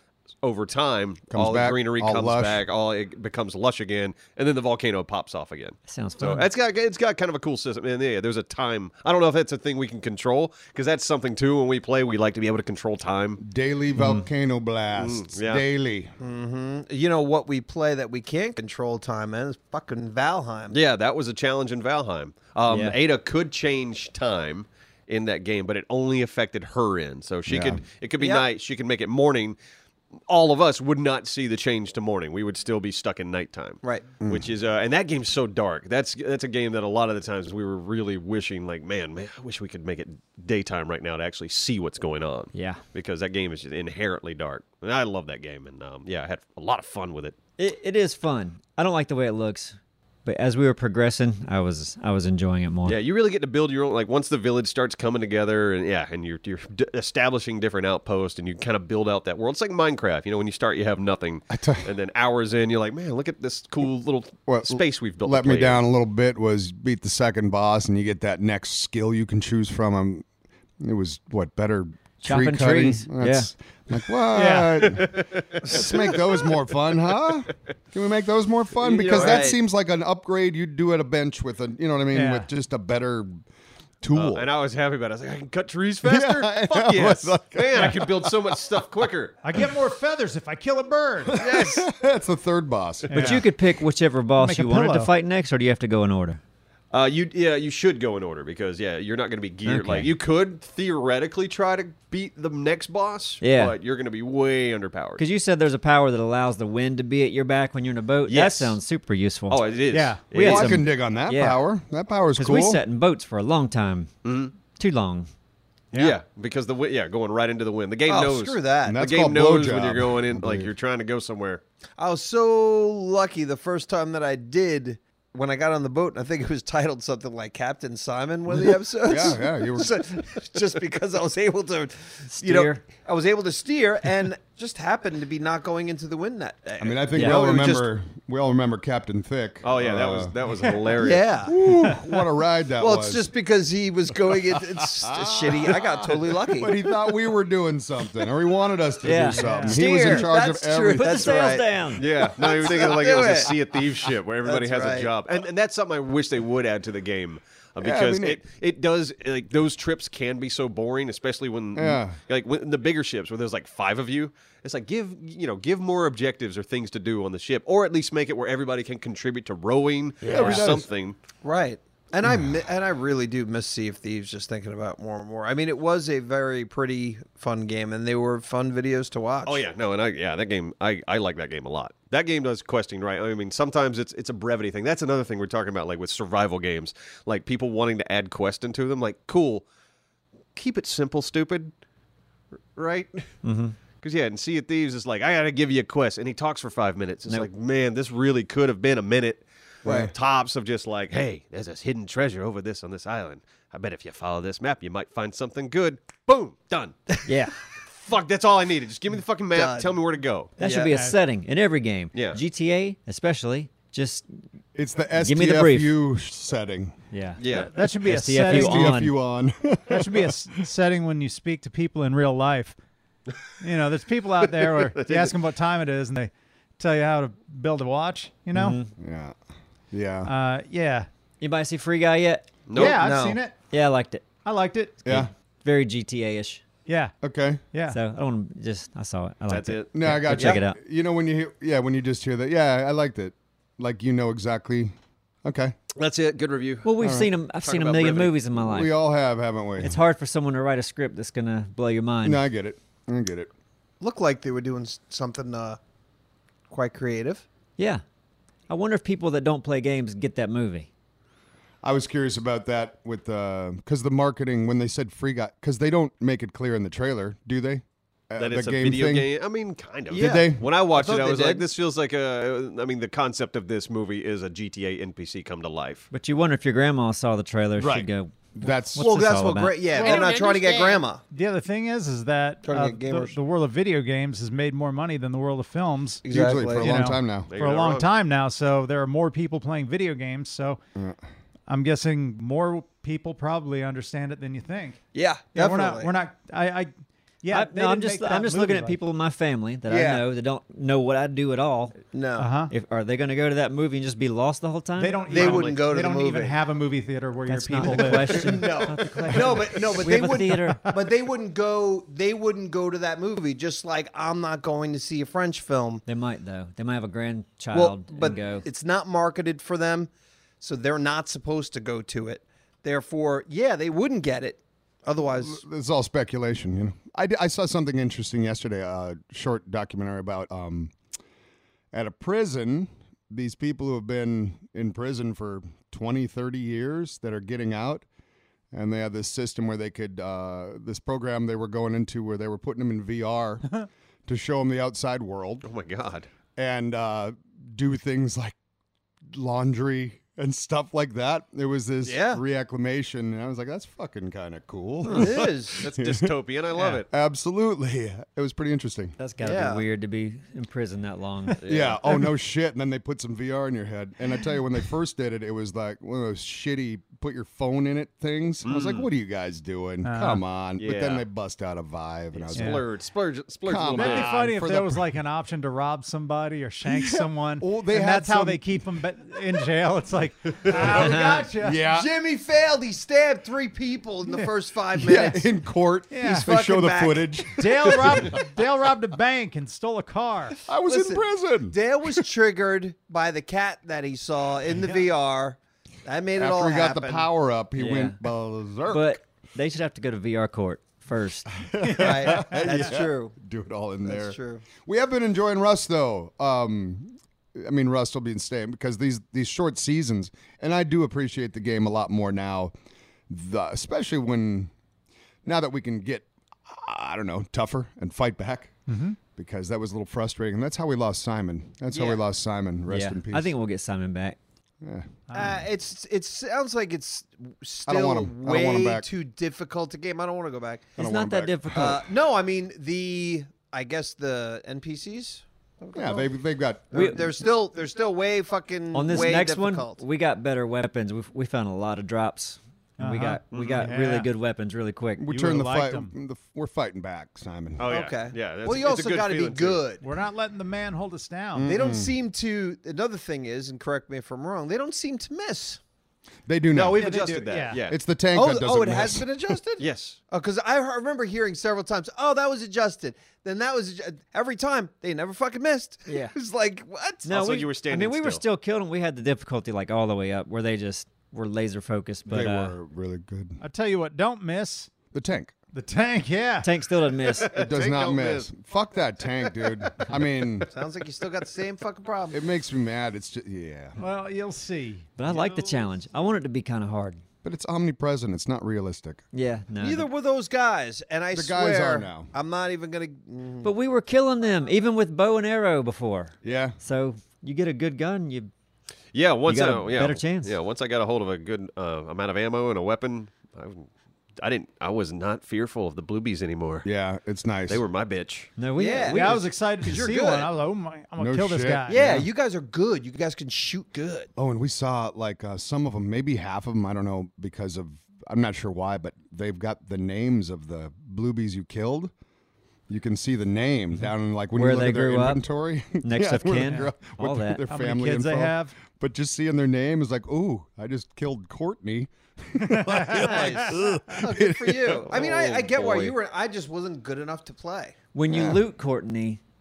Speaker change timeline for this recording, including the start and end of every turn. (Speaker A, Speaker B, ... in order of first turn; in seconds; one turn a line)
Speaker A: 0.4-13.4
Speaker B: 1.3-2.6
Speaker C: 5.9-6.5
Speaker B: 13.4-16.1
Speaker C: 13.9-14.2
Speaker A: 14.9-15.6
Speaker D: 16.2-20.8
Speaker A: 20.7-29.6
Speaker C: 22.7-23.0
Speaker B: 27.5-27.8
Speaker D: 28.2-28.4
Speaker A: 30.3-47.4
Speaker B: 34.2-34.5
Speaker C: 42.5-42.8
Speaker C: 47.6-53.0
Speaker A: 52.8-65.8
Speaker B: 61.5-61.9
Speaker B: 64.5-70.2
Speaker B: 70.8-83.4
Speaker C: 72.2-73.5
Speaker E: 74.3-75.0
Speaker A: 74.9-76.5
Speaker A: 78.8-79.5
Speaker D: 79.0-79.6
Speaker E: 82.1-82.5
Speaker B: 84.0-84.5
Speaker A: 84.1-89.4
Speaker B: 86.0-88.6
Speaker E: 89.4-91.5
Speaker B: 91.3-93.4
Speaker A: 91.4-91.8
Speaker E: 93.1-93.5
Speaker C: 93.1-96.4
Speaker E: 94.3-95.1
Speaker A: 96.9-105.2
Speaker C: 99.7-100.1
Speaker C: 103.4-103.7
Speaker C: 105.2-109.6
Speaker A: 108.2-108.8
Speaker A: 109.5-110.8
Speaker E: 109.9-110.3
Speaker C: 110.2-111.6
Speaker B: 110.4-112.8
Speaker C: 112.4-114.1
Speaker A: 114.2-114.5
Speaker C: 114.7-115.3
Speaker E: 115.9-116.2
Speaker A: 115.9-121.6
Speaker D: 118.1-119.0
Speaker B: 118.8-120.7
Speaker D: 122.0-137.9
Speaker B: 129.0-130.0
Speaker C: 132.3-132.8
Speaker B: 136.8-140.3
Speaker C: 137.1-137.5
Speaker A: 139.6-141.4
Speaker D: 141.0-141.6
Speaker B: 141.4-143.3
Speaker D: 142.8-146.7
Speaker B: 145.1-151.6
Speaker C: 149.0-150.3
Speaker E: 149.3-149.8
Speaker D: 149.8-153.6
Speaker C: 150.9-152.0
Speaker A: 151.9-171.2
Speaker D: 154.4-155.1
Speaker B: 157.8-158.4
Speaker B: 161.7-162.2
Speaker B: 170.2-170.9
Speaker D: 170.3-170.6
Speaker D: 171.4-179.6
Speaker A: 179.4-189.6
Speaker A: 190.5-191.7
Speaker A: 192.8-193.3
Speaker C: 193.4-193.8
Speaker A: 194.0-207.2
Speaker D: 199.8-200.1
Speaker B: 199.8-200.1
Speaker C: 207.2-207.6
Speaker A: 207.9-210.5
Speaker D: 209.5-210.0
Speaker C: 210.6-214.3
Speaker D: 210.6-210.9
Speaker E: 210.9-211.2
Speaker A: 212.1-212.4
Speaker B: 214.7-216.9
Speaker C: 215.2-215.9
Speaker C: 217.1-217.4
Speaker A: 217.4-217.7
Speaker E: 217.5-219.0
Speaker C: 218.0-219.2
Speaker B: 218.4-220.3
Speaker E: 219.9-222.8
Speaker E: 223.6-228.8
Speaker A: 224.4-225.3
Speaker C: 228.5-228.9
Speaker B: 229.0-229.3
Speaker B: 229.9-230.3
Speaker E: 230.2-231.1
Speaker C: 231.4-232.5
Speaker A: 232.7-233.0
Speaker E: 232.7-233.6
Speaker D: 232.8-233.4
Speaker C: 233.7-234.3
Speaker E: 234.4-235.1
Speaker B: 235.0-235.3
Speaker C: 235.1-236.6
Speaker E: 236.8-237.1
Speaker B: 237.2-237.6
Speaker E: 237.7-238.0
Speaker C: 237.9-240.8
Speaker A: 239.5-240.5
Speaker B: 239.9-245.7
Speaker A: 245.9-246.9
Speaker C: 246.8-248.9
Speaker B: 247.0-247.3
Speaker A: 247.5-248.4
Speaker B: 248.6-250.0
Speaker C: 249.8-252.4
Speaker B: 252.2-253.5
Speaker D: 254.0-255.8
Speaker D: 256.7-257.4
Speaker C: 257.8-258.0
Speaker C: 258.7-260.9
Speaker B: 261.8-269.3
Speaker A: 268.4-276.1
Speaker D: 270.1-271.6
Speaker B: 270.1-270.7
Speaker C: 276.1-280.1
Speaker B: 277.8-279.1
Speaker D: 279.0-281.2
Speaker E: 279.9-280.4
Speaker A: 280.1-280.9
Speaker E: 281.3-286.2
Speaker D: 282.6-283.4
Speaker D: 286.2-286.9
Speaker B: 286.3-287.5
Speaker E: 286.8-290.8
Speaker A: 287.5-288.1
Speaker B: 290.9-291.2
Speaker E: 291.7-295.0
Speaker D: 295.1-296.1
Speaker E: 295.5-296.9
Speaker E: 297.4-299.0
Speaker C: 297.5-302.0
Speaker D: 299.9-300.2
Speaker D: 302.1-302.5
Speaker E: 302.4-302.7
Speaker C: 302.7-305.2
Speaker E: 304.9-309.9
Speaker D: 305.3-306.6
Speaker A: 305.3-305.8
Speaker C: 307.5-310.9
Speaker D: 307.8-316.0
Speaker E: 310.6-310.9
Speaker C: 316.1-318.6
Speaker D: 317.7-320.1
Speaker D: 320.6-325.6
Speaker B: 325.4-330.9
Speaker B: 331.9-338.1
Speaker B: 338.7-345.7
Speaker A: 345.6-346.3
Speaker B: 346.6-348.6
Speaker B: 349.3-356.4
Speaker D: 352.0-352.4
Speaker D: 355.1-355.8
Speaker A: 355.1-357.1
Speaker B: 357.1-359.1
Speaker C: 359.2-361.6
Speaker D: 359.4-359.8
Speaker A: 361.6-362.0
Speaker B: 361.6-372.8
Speaker A: 368.6-369.1
Speaker E: 370.0-370.4
Speaker A: 370.8-371.2
Speaker A: 372.3-374.3
Speaker E: 372.5-372.8
Speaker B: 373.6-375.1
Speaker E: 373.9-381.8
Speaker B: 376.9-378.8
Speaker B: 380.7-382.1
Speaker C: 380.9-381.4
Speaker D: 381.9-385.5
Speaker B: 385.0-388.5
Speaker E: 386.1-386.5
Speaker D: 386.2-387.9
Speaker E: 387.6-390.6
Speaker B: 390.6-392.2
Speaker D: 390.9-397.3
Speaker B: 396.4-399.2
Speaker C: 397.8-398.2
Speaker C: 398.9-401.6
Speaker B: 401.5-412.7
Speaker E: 401.8-402.8
Speaker D: 401.9-403.3
Speaker D: 404.0-404.6
Speaker B: 413.3-414.7
Speaker B: 415.4-423.5
Speaker E: 418.9-419.2
Speaker D: 421.9-422.2
Speaker C: 422.9-424.4
Speaker B: 424.8-425.2
Speaker E: 425.3-425.6
Speaker D: 425.3-430.9
Speaker B: 427.9-429.1
Speaker C: 431.0-432.0
Speaker B: 431.0-432.0
Speaker D: 431.7-436.3
Speaker B: 435.9-437.3
Speaker D: 436.9-440.0
Speaker C: 438.9-445.3
Speaker E: 443.0-444.3
Speaker A: 443.5-443.9
Speaker B: 445.2-447.9
Speaker E: 445.3-446.1
Speaker A: 447.8-449.8
Speaker D: 447.9-450.0
Speaker E: 450.0-451.7
Speaker B: 451.5-452.1
Speaker D: 451.6-455.8
Speaker B: 456.4-457.2
Speaker A: 456.7-457.9
Speaker E: 456.9-457.8
Speaker B: 457.8-459.6
Speaker D: 458.3-467.4
Speaker A: 459.8-460.2
Speaker C: 466.1-466.3
Speaker C: 467.2-472.8
Speaker A: 467.3-468.4
Speaker B: 472.3-473.6
Speaker E: 473.6-474.9
Speaker B: 475.1-475.5
Speaker E: 475.7-476.7
Speaker C: 476.6-477.5
Speaker A: 477.3-478.5
Speaker B: 477.5-480.7
Speaker D: 480.7-482.4
Speaker B: 482.3-484.0
Speaker E: 484.0-485.9
Speaker C: 485.2-487.2
Speaker B: 487.4-489.2
Speaker C: 489.3-490.1
Speaker D: 489.8-493.7
Speaker B: 491.3-492.3
Speaker C: 493.6-498.5
Speaker B: 496.4-496.8
Speaker A: 499.1-506.9
Speaker C: 499.5-500.5
Speaker B: 506.8-507.8
Speaker A: 507.7-508.5
Speaker C: 508.6-509.4
Speaker D: 508.8-510.5
Speaker E: 509.0-512.2
Speaker B: 511.2-512.2
Speaker D: 511.9-514.3
Speaker B: 514.4-522.1
Speaker B: 522.9-535.1
Speaker C: 524.5-525.4
Speaker C: 526.0-527.6
Speaker E: 527.7-528.8
Speaker E: 532.6-533.8
Speaker D: 533.1-537.9
Speaker A: 535.1-536.1
Speaker C: 538.1-539.4
Speaker B: 538.3-538.6